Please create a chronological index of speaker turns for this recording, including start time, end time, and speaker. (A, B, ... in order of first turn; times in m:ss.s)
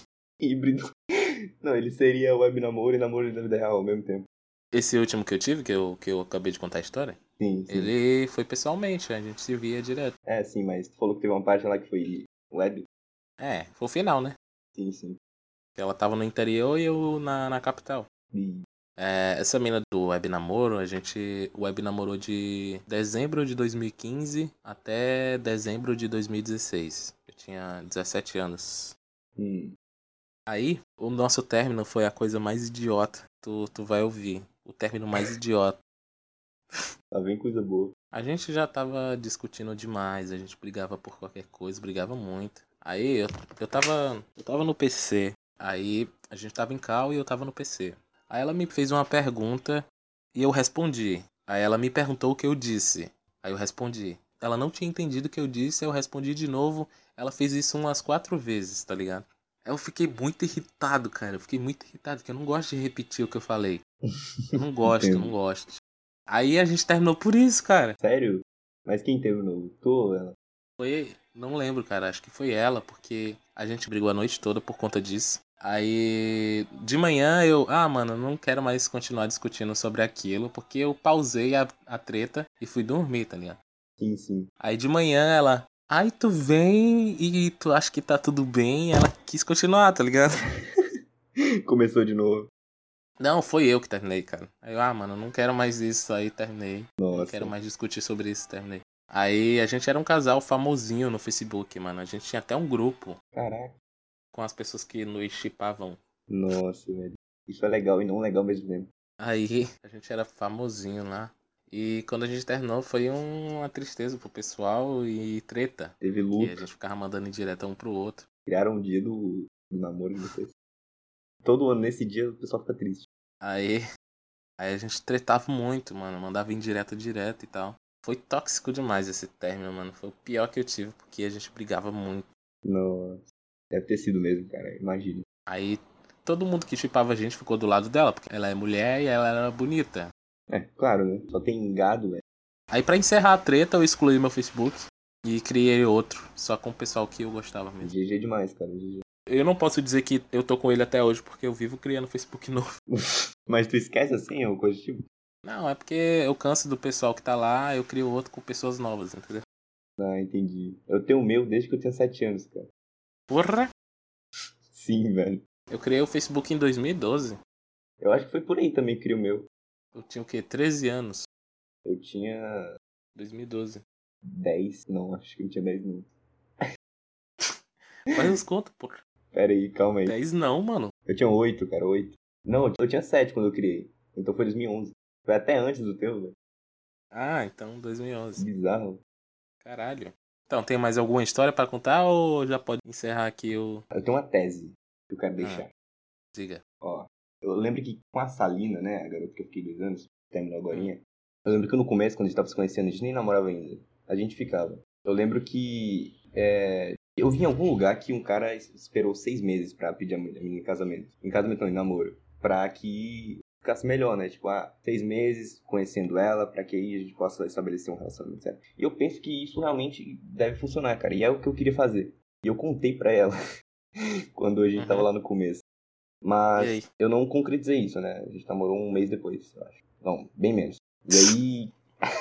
0:00.4-0:00.9 A
0:01.6-0:04.3 A
0:04.7-0:10.1 B
0:07.4-0:07.9 A
0:10.2-0:12.8 A
0:13.4-0:14.4 B
0:14.8-0:15.2 A
0:15.8-0:18.1 B
0:18.3-0:18.6 A
0:19.0-0:28.9 B
0:29.4-0:29.7 A
0:30.5-0:35.8 B
0:37.1-0:37.9 A
0:38.1-1:03.8 B
1:04.1-1:05.3 A
1:04.5-1:05.8 B
1:06.3-1:08.0 B
1:08.0-1:10.3 A
1:10.8-1:23.6 B
1:24.0-1:24.5 A
1:24.6-1:30.4 B
1:31.6-1:32.5 A
1:33.2-1:43.2 B
1:37.0-1:37.5 A
1:43.3-1:43.7 A
1:44.3-1:46.0 B
1:46.3-1:48.9 A
1:49.2-1:58.2 B
1:56.0-1:56.6 A
1:58.4-2:00.5 A
2:01.4-2:03.0 A
2:03.4-2:03.8 B
2:04.6-2:12.3 B
2:12.6-2:15.2 A
2:15.5-2:20.1 B
2:20.5-2:22.2 A
2:22.7-2:27.9 B
2:27.8-2:29.0 A
2:29.3-2:32.7 B
2:32.9-2:35.0 A
2:35.4-2:39.4 B
2:40.0-2:42.7 A
2:43.3-2:43.7 B
2:44.7-2:45.4 A
2:45.7-2:47.4 B
2:48.0-2:49.5 A
2:49.9-2:51.2 B
2:51.8-2:52.7 A
2:53.2-2:53.8 B
2:54.2-2:56.1 A
2:58.1-2:59.0 B
2:59.3-3:00.2 A
3:00.0-3:00.9 B
3:01.1-3:06.3 A
3:07.1-3:08.4 B
3:08.4-3:09.0 A
3:09.6-3:13.8 B
3:13.9-3:15.7 A
3:16.3-3:16.6 B
3:16.8-3:43.3 A
3:44.3-3:45.6 A
3:44.8-3:45.1 B
3:46.2-3:51.7 A
3:46.6-3:46.9 B